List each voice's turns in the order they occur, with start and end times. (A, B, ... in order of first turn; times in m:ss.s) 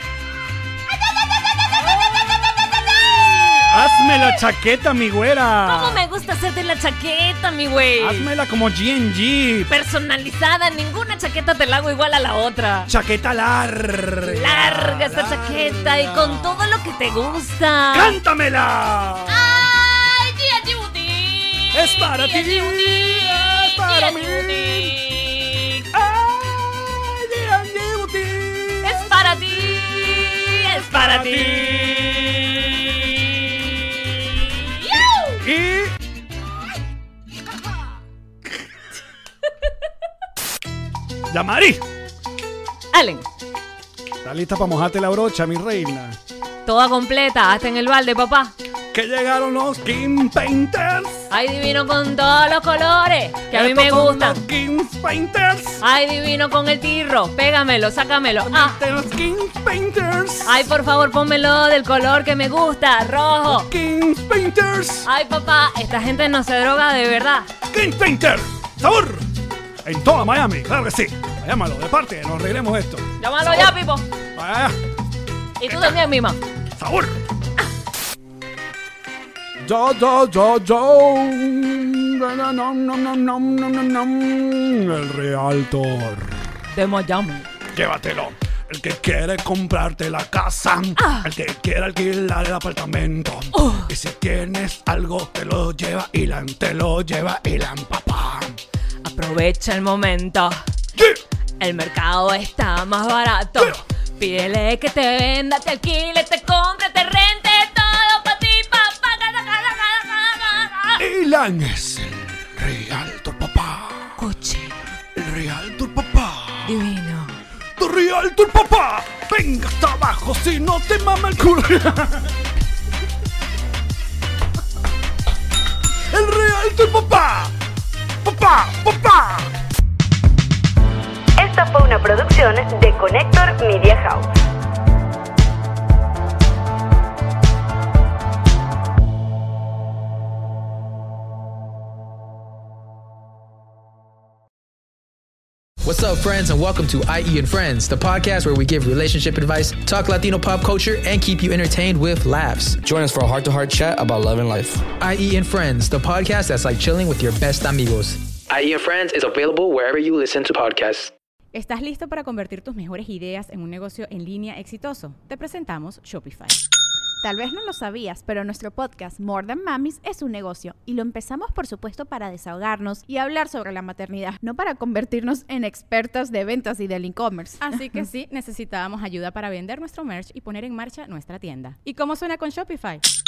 0:01.7-0:04.4 A
0:03.5-0:06.0 B
0:05.6-0:08.3 A
0:08.0-0:09.7 B
0:09.7-0:12.9 A
0:12.9-0:16.7 B
0:14.2-0:18.2 A
0:17.9-0:19.7 B
0:19.3-0:25.8 A
0:21.7-0:25.0 B
0:25.9-0:33.4 B
0:28.8-0:31.9 A
0:34.1-0:35.3 A
0:34.9-0:36.0 B
0:41.3-0:41.8 B
0:42.9-0:43.2 A
0:44.2-0:46.2 B
0:46.6-0:48.5 A
0:48.9-0:51.3 B
0:51.3-0:54.4 A
0:53.5-0:55.8 B
0:55.8-0:58.8 A
0:58.4-1:00.7 B
1:00.4-1:03.7 A
1:03.4-1:05.1 B
1:05.0-1:07.5 A
1:07.7-1:09.3 B
1:09.8-1:13.8 B
1:13.2-1:14.0 A
1:14.3-1:14.8 B
1:15.6-1:16.4 A
1:16.8-1:17.2 B
1:19.6-1:26.5 B
1:26.7-1:27.5 A
1:27.7-1:38.6 B
1:31.0-1:31.3 A
1:33.5-1:33.9 A
1:39.0-1:40.6 A
1:41.0-1:41.2 B
1:41.6-1:51.0 A
1:43.6-1:43.8 B
1:51.0-1:54.2 B
1:54.2-1:54.8 A
1:55.1-1:56.8 B
1:56.6-1:57.4 A
1:57.8-2:02.4 B
2:06.0-2:07.6 B
2:08.2-2:09.5 B
2:11.4-2:14.3 C
2:25.8-2:32.8 D
2:32.8-2:34.8 E
2:35.0-2:38.2 D
2:38.5-2:41.1 E
2:41.5-2:46.6 F
2:47.2-2:57.8 G
2:57.6-3:03.0 F